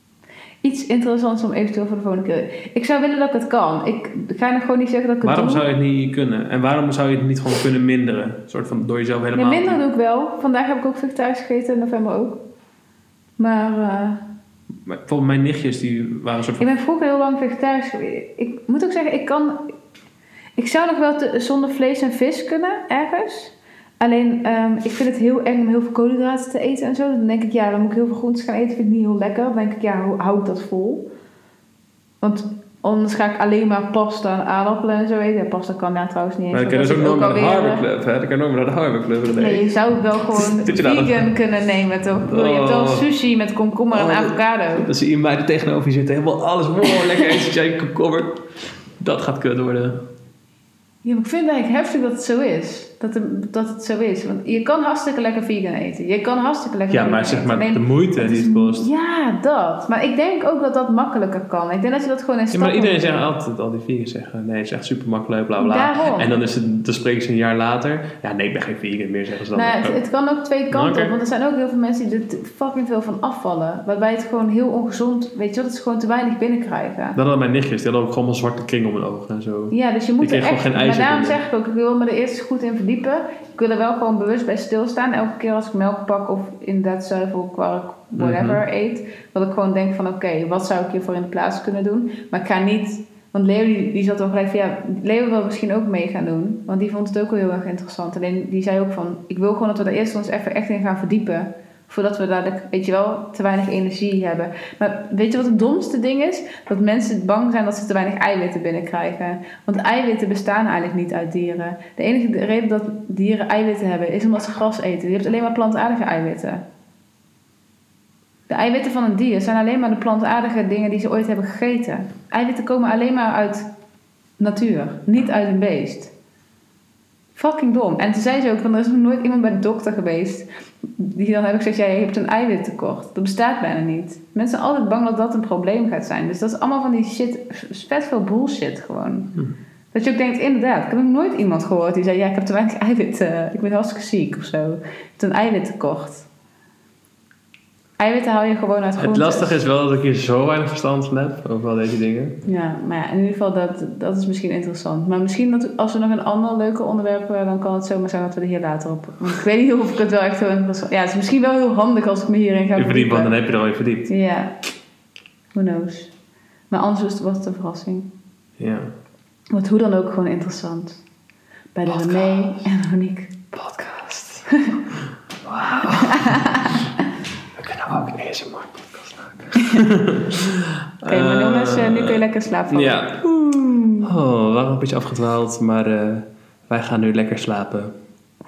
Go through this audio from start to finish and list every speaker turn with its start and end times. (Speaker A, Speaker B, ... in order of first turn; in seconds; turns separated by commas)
Speaker A: 0.6-5.6, Speaker B: 5.2-9.8, Speaker A: 9.3-12.4, Speaker A: 13.4-14.2, Speaker B: 14.8-16.7, Speaker A: 16.6-19.7, Speaker A: 20.6-31.1, Speaker A: 32.2-37.8, Speaker B: 36.5-39.7, Speaker A: 39.4-44.9, Speaker B: 40.3-41.3, Speaker B: 42.2-43.0, Speaker B: 43.9-48.4, Speaker B: 49.0-50.0, Speaker A: 51.0-63.2, Speaker B: 56.9-58.9, Speaker B: 62.5-70.0, Speaker A: 65.6-66.4, Speaker A: 69.5-77.2, Speaker B: 70.7-71.1, Speaker B: 77.1-81.4, Speaker A: 79.7-116.6, Speaker B: 88.2-88.6, Speaker A: 118.5-123.7, Speaker A: 124.4-126.1, Speaker A: 127.3-139.3, Speaker A: 139.9-146.3, Speaker A: 148.0-149.6, Speaker B: 149.0-152.4, Speaker A: 152.4-163.4, Speaker B: 162.8-164.1, Speaker A: 164.1-164.5, Speaker A: 165.5-166.1, Speaker A: 166.7-168.1, Speaker B: 168.6-168.9, Speaker A: 169.5-171.0, Speaker A: 171.7-173.5, Speaker B: 171.9-172.5, Speaker B: 173.5-176.5, Speaker A: 174.5-174.8, Speaker A: 175.8-176.9, Speaker B: 177.6-183.2, Speaker A: 181.1-184.1, Speaker B: 184.0-187.9